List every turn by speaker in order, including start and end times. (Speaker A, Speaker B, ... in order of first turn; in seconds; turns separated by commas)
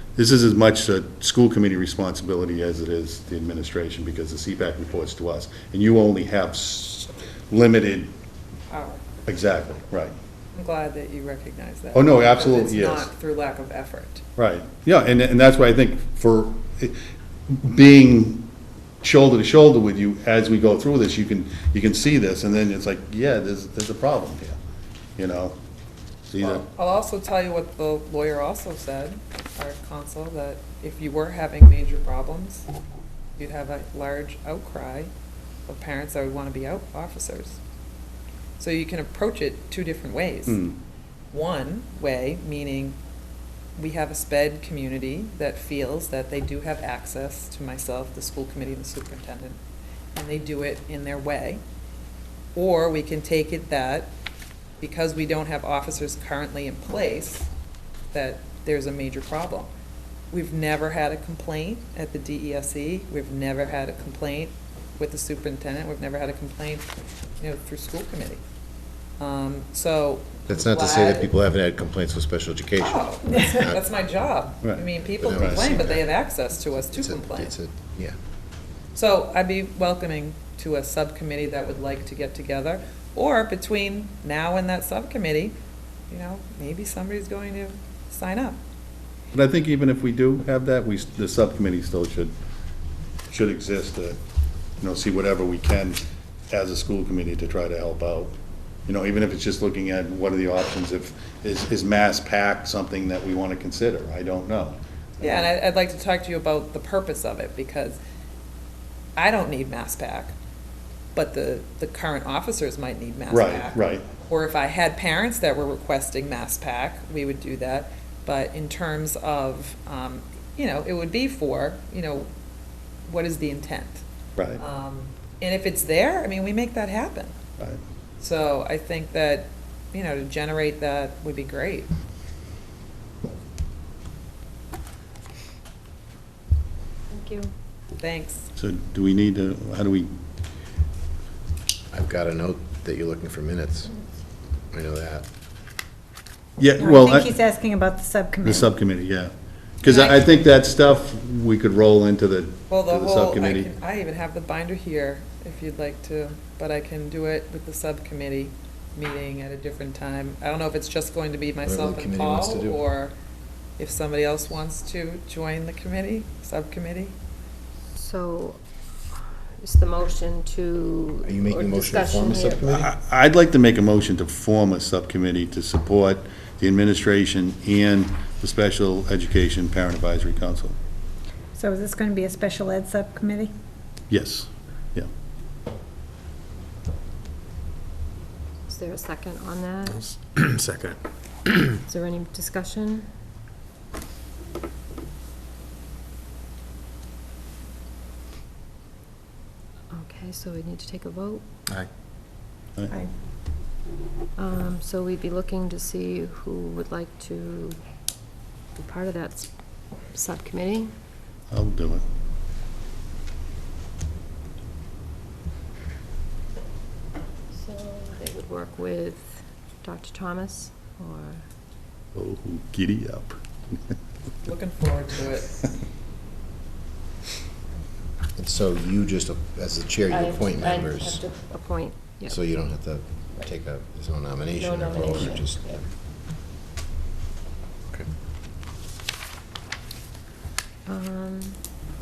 Speaker A: 0.1-8.1, Speaker B: 8.7-9.0, Speaker A: 9.2-10.1, Speaker B: 10.5-14.2, Speaker A: 11.9-13.1, Speaker A: 14.4-18.4, Speaker A: 19.0-24.6, Speaker A: 25.2-25.6, Speaker A: 26.3-26.6, Speaker B: 26.4-32.7, Speaker B: 33.4-35.1, Speaker B: 35.7-37.6, Speaker B: 38.6-40.6, Speaker A: 40.5-40.8, Speaker B: 41.3-43.0, Speaker B: 43.8-49.6, Speaker B: 50.1-51.6, Speaker B: 52.5-54.1, Speaker B: 54.8-57.5, Speaker B: 58.1-59.7, Speaker B: 60.3-66.9, Speaker B: 67.4-68.4, Speaker B: 69.2-71.3, Speaker C: 70.5-73.8, Speaker B: 72.8-77.5, Speaker A: 74.6-75.8, Speaker C: 75.2-76.0, Speaker C: 76.9-78.2, Speaker B: 78.9-85.5, Speaker B: 86.1-88.6, Speaker A: 89.3-92.3, Speaker A: 93.3-94.2, Speaker A: 94.8-98.3, Speaker A: 98.9-105.5, Speaker B: 105.2-108.0, Speaker B: 109.2-110.3, Speaker B: 111.1-122.3, Speaker A: 113.3-114.0, Speaker B: 123.1-124.0, Speaker B: 124.5-127.3, Speaker B: 128.2-131.9, Speaker D: 137.1-137.5, Speaker B: 138.0-138.5, Speaker A: 138.6-140.1, Speaker C: 141.9-143.9, Speaker C: 144.7-145.2, Speaker A: 146.6-147.3, Speaker E: 146.8-148.7, Speaker A: 148.4-153.7, Speaker E: 149.8-150.2, Speaker B: 152.7-163.1, Speaker C: 161.6-162.8, Speaker B: 163.8-167.1, Speaker D: 167.9-168.6, Speaker D: 169.6-172.8, Speaker C: 171.2-172.9, Speaker A: 172.7-180.8, Speaker E: 181.5-183.5, Speaker A: 184.1-185.1, Speaker D: 188.7-190.1, Speaker D: 191.8-193.1, Speaker D: 199.9-201.4, Speaker D: 204.4-207.8, Speaker D: 208.8-209.5, Speaker D: 210.1-210.9, Speaker A: 211.5-212.0, Speaker D: 217.6-221.4, Speaker A: 222.1-223.8, Speaker B: 224.4-225.5, Speaker C: 228.3-231.2, Speaker D: 230.1-232.4, Speaker C: 232.3-235.8, Speaker D: 234.5-235.8, Speaker D: 240.9-241.6